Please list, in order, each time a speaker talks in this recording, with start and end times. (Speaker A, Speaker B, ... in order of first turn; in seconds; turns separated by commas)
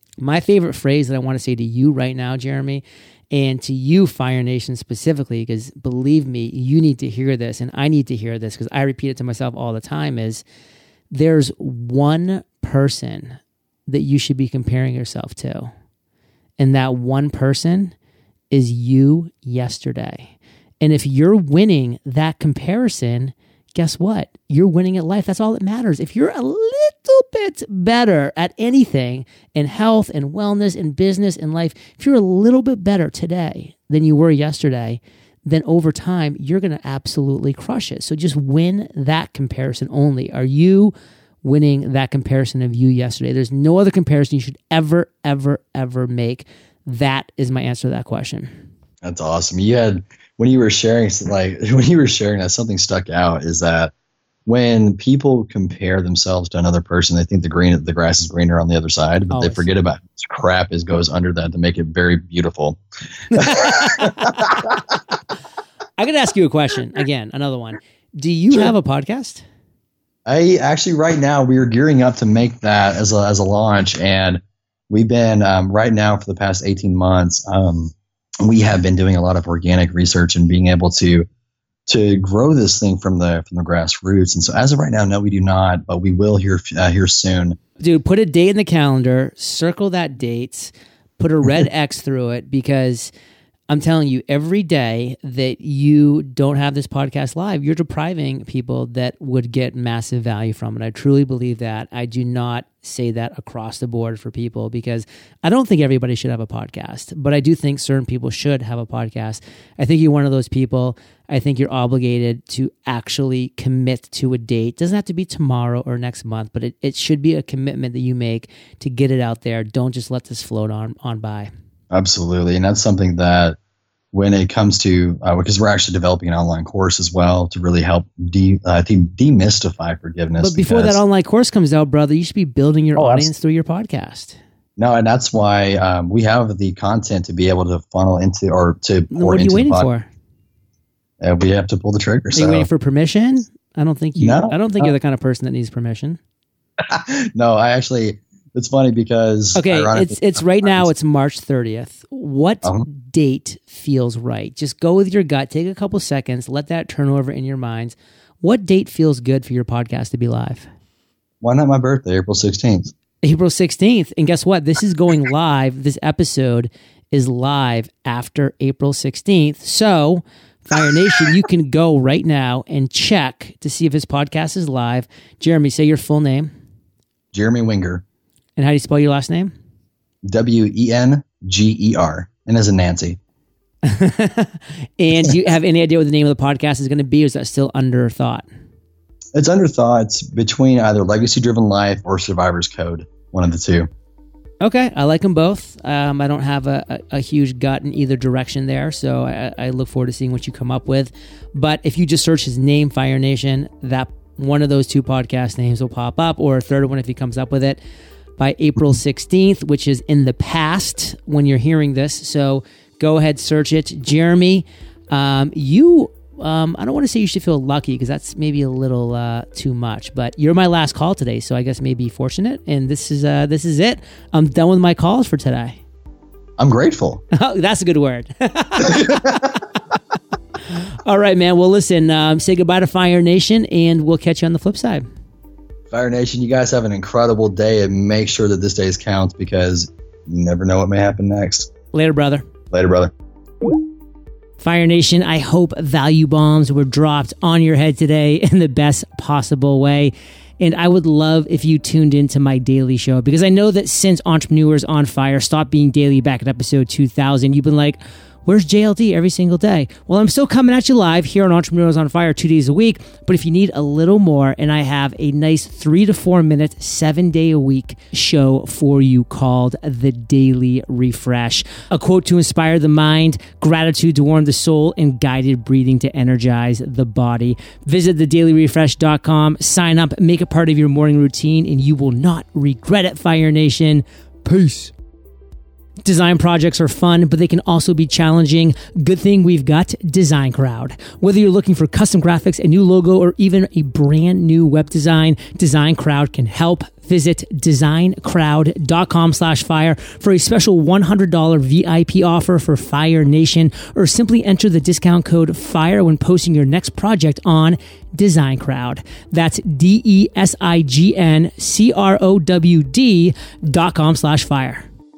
Speaker A: 0.2-10.4, Speaker A: 11.1-15.7, Speaker A: 16.6-17.9, Speaker A: 18.5-48.5, Speaker B: 49.0-53.9, Speaker B: 54.5-62.8, Speaker A: 59.3-59.7, Speaker B: 63.3-64.9, Speaker A: 63.3-64.3, Speaker A: 66.0-69.4, Speaker B: 70.2-81.3, Speaker B: 81.9-87.6, Speaker A: 87.8-93.1, Speaker A: 93.7-121.5, Speaker B: 121.9-123.6, Speaker B: 124.1-131.0, Speaker A: 130.4-134.4, Speaker B: 132.9-133.3, Speaker B: 134.8-139.9, Speaker A: 139.1-140.1, Speaker B: 141.2-142.7, Speaker A: 142.3-146.2, Speaker B: 144.2-144.9, Speaker B: 146.8-150.9, Speaker A: 149.5-160.7, Speaker B: 161.4-162.9, Speaker A: 163.2-176.5, Speaker B: 177.3-178.0, Speaker A: 178.6-179.5, Speaker B: 180.3-183.2, Speaker A: 183.8-188.4, Speaker B: 189.3-193.9, Speaker A: 194.6-207.8, Speaker A: 208.4-225.8, Speaker B: 226.6-227.2, Speaker A: 227.3-229.6, Speaker B: 228.8-229.6, Speaker A: 231.1-235.0, Speaker B: 235.9-241.7, Speaker A: 241.9-242.4, Speaker B: 242.7-243.1, Speaker A: 244.6-284.9, Speaker A: 286.0-314.9